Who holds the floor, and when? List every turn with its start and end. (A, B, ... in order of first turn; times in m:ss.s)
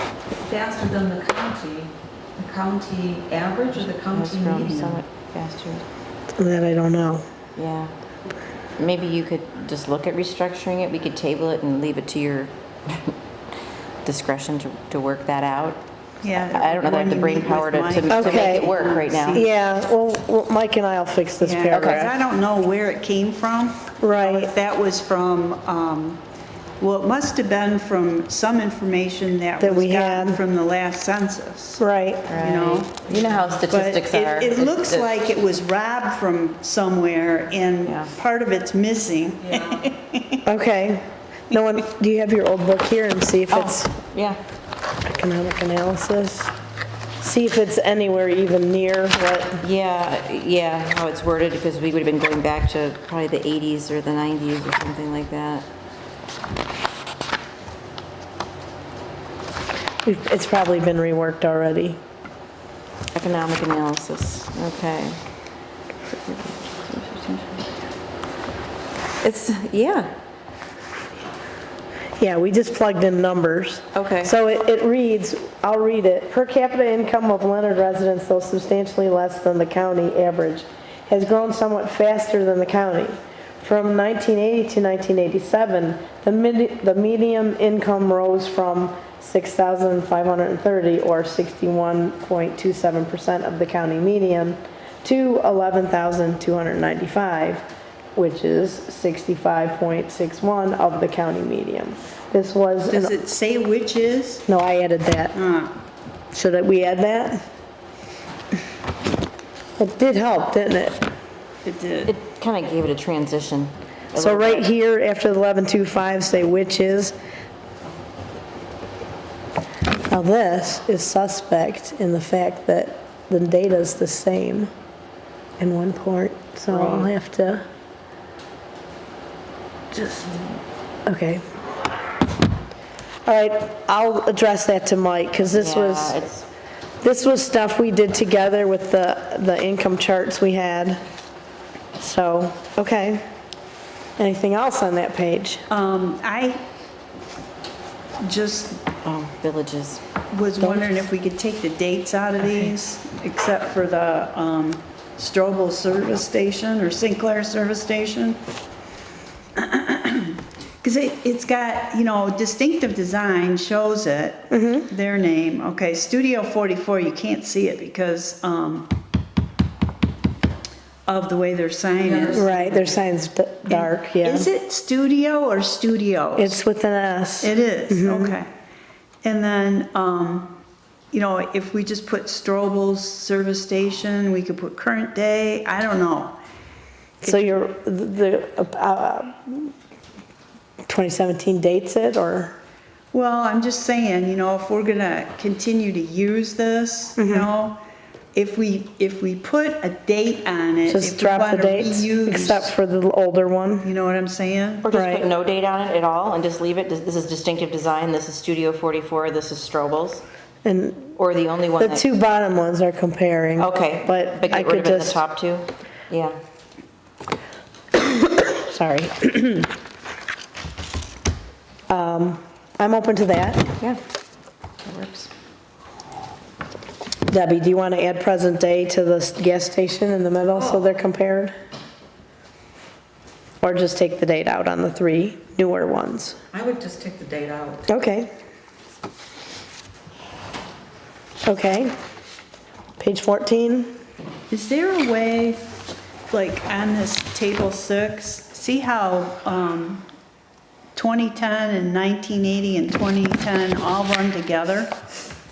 0:00.3-0:05.0 A
0:03.8-0:05.8 B
0:06.4-0:07.2 C
0:07.6-0:07.9 B
0:08.8-0:13.2 B
0:14.0-0:15.8 B
0:16.2-0:19.5 D
0:16.3-0:19.4 B
0:18.1-0:18.7 C
0:19.3-0:22.2 C
0:21.4-0:26.2 D
0:21.7-0:22.0 B
0:24.0-0:24.5 C
0:26.8-0:31.8 D
0:29.6-0:30.4 C
0:31.8-0:32.4 C
0:32.3-0:35.1 B
0:32.4-0:33.0 D
0:33.1-0:33.4 A
0:33.7-0:40.4 D
0:37.8-0:38.1 B
0:39.5-0:39.9 A
0:40.4-0:43.9 C
0:43.5-0:44.4 B
0:45.0-0:46.5 C
0:47.2-0:49.6 C
0:49.6-0:55.7 B
1:00.0-1:02.0 C
1:03.1-1:05.2 B
1:06.1-1:07.8 B
1:09.2-1:10.1 B
1:12.2-1:43.1 C
1:13.9-1:14.3 B
1:42.9-1:44.4 D
1:44.5-1:45.3 C
1:45.3-1:45.8 D
1:46.3-1:47.4 C
1:49.8-1:51.1 C
1:51.6-1:52.1 D
1:52.0-1:54.7 B
1:54.1-1:57.1 C
2:00.1-2:04.7 C
2:05.6-2:07.7 C
2:06.7-2:07.1 B
2:09.9-2:10.4 C
2:11.0-2:11.4 C
2:13.2-2:16.2 C
2:15.5-2:16.5 B
2:17.0-2:21.0 C
2:22.0-2:23.2 C
2:24.2-2:25.6 C
2:25.7-2:26.6 D
2:28.2-2:28.8 D
2:29.0-2:30.0 B
2:30.3-2:38.4 D
2:30.6-2:30.9 C
2:39.6-2:48.9 D
2:44.5-2:44.9 C
2:51.1-2:52.5 D
2:52.0-2:53.0 A
2:52.3-2:54.5 C
2:53.7-2:56.6 D
2:56.4-2:58.3 C
2:57.4-2:58.5 D
2:59.2-3:00.6 D
3:01.1-3:06.4 D
3:07.2-3:07.6 D
3:07.2-3:09.7 C
3:10.9-3:12.6 C
3:13.1-3:17.8 D
3:17.2-3:17.5 C
3:18.3-3:22.7 D
3:20.9-3:23.9 C
3:23.8-3:24.9 D
3:24.8-3:30.2 B
3:24.9-3:25.3 C
3:30.6-3:31.1 C
3:31.2-3:32.1 B
3:31.8-3:35.2 C
3:33.6-3:36.4 B
3:38.0-3:39.7 C
3:41.9-3:43.8 C
3:44.8-3:45.3 B
3:47.3-3:51.5 C
3:50.6-3:50.8 A
3:53.6-3:56.4 C
3:56.5-3:57.9 A
3:57.9-3:58.3 C
4:01.4-4:01.9 C
4:03.0-4:03.9 C
4:04.5-4:05.7 D
4:06.3-4:10.1 D
4:10.9-4:15.0 D